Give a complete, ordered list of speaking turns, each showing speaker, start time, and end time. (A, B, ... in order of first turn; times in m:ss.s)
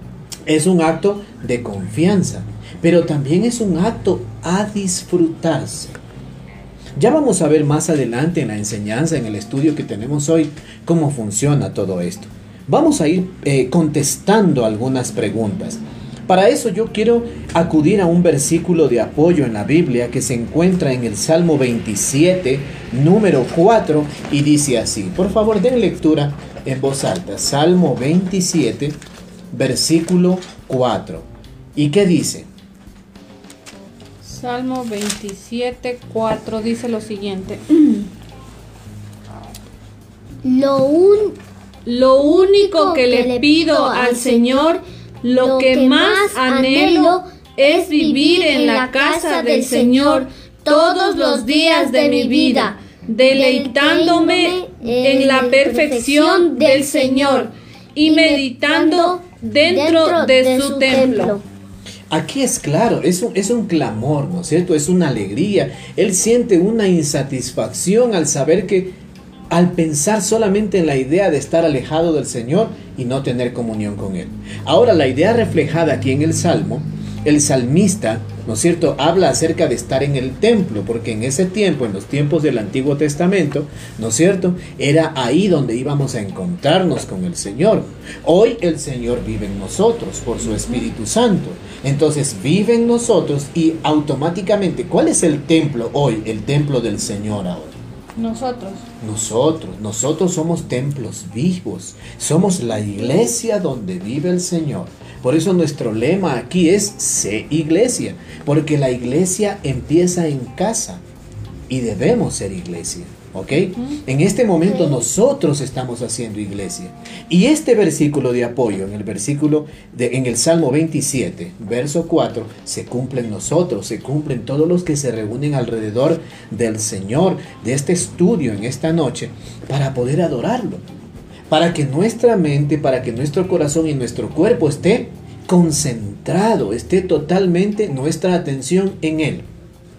0:00.5-0:06.0 A
0:07.0-0:29.0 A
0:29.5-0:32.5 A
0:34.2-0:38.1 B
0:40.4-0:41.4 C
0:41.8-1:01.4 B
0:42.2-0:44.8 C
0:45.4-0:57.5 C
0:58.0-1:01.4 C
1:02.1-1:09.0 A
1:09.5-1:37.8 A
1:30.6-1:30.8 B
1:38.2-1:38.9 B
1:39.0-1:51.0 A
1:51.7-2:10.8 A
1:54.6-1:55.0 C
2:11.5-2:19.5 A